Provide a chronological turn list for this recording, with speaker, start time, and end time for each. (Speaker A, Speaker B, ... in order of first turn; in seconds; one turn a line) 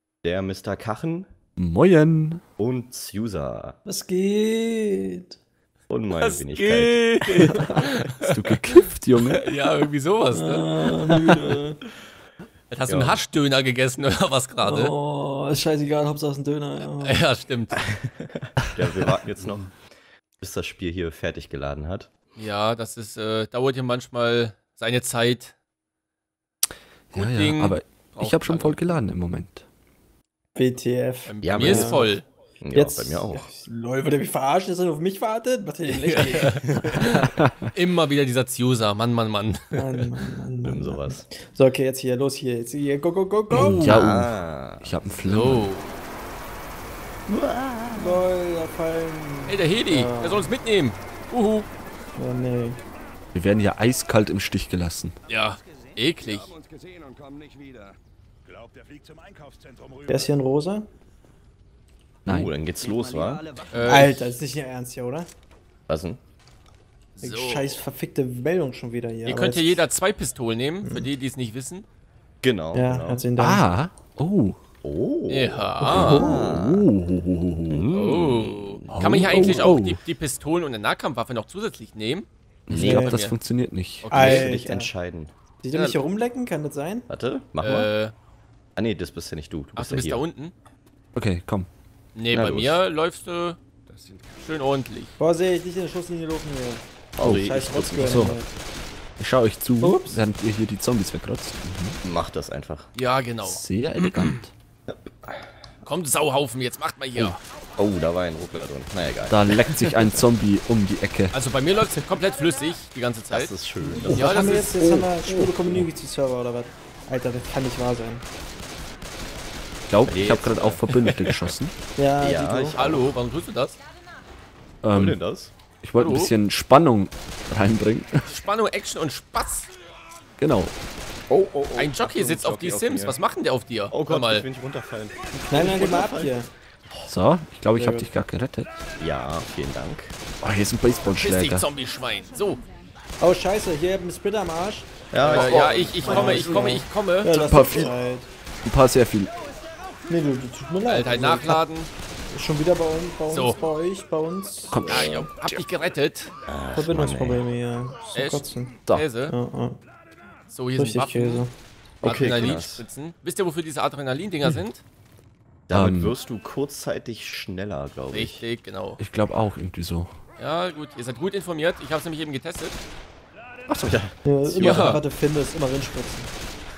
Speaker A: 0.2-1.3
Speaker B: 1.6-2.4
Speaker A: 2.6-3.8
Speaker C: 3.9-5.3
Speaker A: 5.9-7.0
Speaker D: 6.1-8.6
Speaker B: 7.4-9.5
Speaker D: 9.3-11.6
Speaker C: 10.3-11.8
Speaker D: 12.7-14.9
Speaker A: 12.9-13.2
Speaker C: 14.6-17.2
Speaker D: 17.0-17.8
Speaker A: 18.2-19.8
Speaker A: 20.4-22.1
Speaker D: 22.4-25.5
Speaker B: 27.1-29.6
Speaker D: 27.1-28.8
Speaker C: 30.5-32.2
Speaker D: 31.2-32.2
Speaker A: 31.4-32.1
Speaker A: 32.6-33.5
Speaker C: 32.7-37.3
Speaker D: 35.9-40.1
Speaker B: 37.4-37.7
Speaker C: 39.7-43.9
Speaker A: 40.6-41.2
Speaker B: 43.5-45.7
Speaker D: 43.5-44.0
Speaker A: 43.8-45.0
Speaker D: 45.2-46.0
Speaker A: 47.3-48.3
Speaker C: 47.9-50.5
Speaker D: 49.5-51.7
Speaker C: 52.2-52.8
Speaker B: 53.3-55.1
Speaker D: 55.3-56.5
Speaker C: 60.1-60.9
Speaker B: 62.2-62.5
Speaker A: 62.2-63.6
Speaker D: 63.6-64.3
Speaker C: 63.8-65.3
Speaker A: 65.9-66.2
Speaker D: 67.2-67.8
Speaker C: 67.2-69.8
Speaker D: 69.2-71.8
Speaker C: 70.8-71.1
Speaker A: 72.4-73.2
Speaker C: 72.7-73.7
Speaker B: 73.4-74.6
Speaker A: 74.8-76.9
Speaker D: 75.3-76.3
Speaker B: 75.8-77.9
Speaker C: 75.8-76.3
Speaker A: 77.7-79.8
Speaker D: 77.9-82.3
Speaker B: 78.9-80.0
Speaker B: 82.7-84.2
Speaker A: 82.7-83.0
Speaker C: 82.7-83.2
Speaker D: 82.8-83.3
Speaker D: 84.0-84.5
Speaker A: 84.1-85.3
Speaker C: 84.1-84.9
Speaker C: 85.6-87.1
Speaker D: 85.7-86.0
Speaker A: 87.1-87.9
Speaker D: 87.6-88.1
Speaker A: 88.8-90.2
Speaker D: 89.8-90.5
Speaker B: 91.1-91.7
Speaker D: 92.1-93.6
Speaker A: 92.3-92.8
Speaker D: 94.4-95.1
Speaker C: 95.2-98.5
Speaker A: 97.2-98.3
Speaker B: 97.2-98.4
Speaker B: 99.2-102.0
Speaker C: 99.8-100.2
Speaker A: 102.0-102.9
Speaker D: 103.0-104.4
Speaker B: 103.4-104.5
Speaker A: 104.9-105.4
Speaker D: 105.8-107.4
Speaker A: 107.8-109.4
Speaker B: 109.3-111.3
Speaker D: 111.3-113.6
Speaker A: 113.3-114.4
Speaker C: 113.9-118.2
Speaker B: 114.0-115.8
Speaker D: 114.1-114.7
Speaker B: 119.9-121.7
Speaker A: 120.1-121.1
Speaker D: 120.9-121.4
Speaker C: 122.0-122.8
Speaker A: 122.2-123.1
Speaker D: 122.7-123.8
Speaker B: 124.8-125.2
Speaker A: 124.9-125.5
Speaker B: 125.8-128.3
Speaker D: 126.0-126.3
Speaker D: 128.3-129.7
Speaker B: 130.4-130.7
Speaker A: 131.3-133.2
Speaker D: 131.8-134.4
Speaker A: 133.9-136.3
Speaker C: 135.3-136.5
Speaker B: 137.1-138.8
Speaker C: 137.7-138.1
Speaker A: 139.0-140.2
Speaker B: 140.4-141.7
Speaker D: 141.1-142.6
Speaker C: 143.2-144.9
Speaker A: 145.1-146.6
Speaker D: 145.2-147.3
Speaker C: 146.0-148.3
Speaker B: 146.1-146.5
Speaker B: 147.3-147.9
Speaker B: 148.6-149.3
Speaker C: 150.1-151.6
Speaker D: 150.9-151.9
Speaker C: 152.3-155.3
Speaker D: 153.3-153.6
Speaker B: 154.7-155.6
Speaker D: 154.9-156.3
Speaker A: 156.5-157.4
Speaker C: 156.7-158.8
Speaker D: 158.1-159.3
Speaker C: 159.3-159.8
Speaker D: 160.5-161.5
Speaker C: 160.8-161.5
Speaker D: 162.0-164.8
Speaker A: 162.0-162.8
Speaker A: 165.7-168.4
Speaker B: 165.7-166.2
Speaker D: 168.1-169.0
Speaker B: 169.0-170.2
Speaker D: 170.4-172.8
Speaker B: 173.7-173.9
Speaker A: 173.8-174.8
Speaker C: 174.2-176.3
Speaker D: 174.6-175.0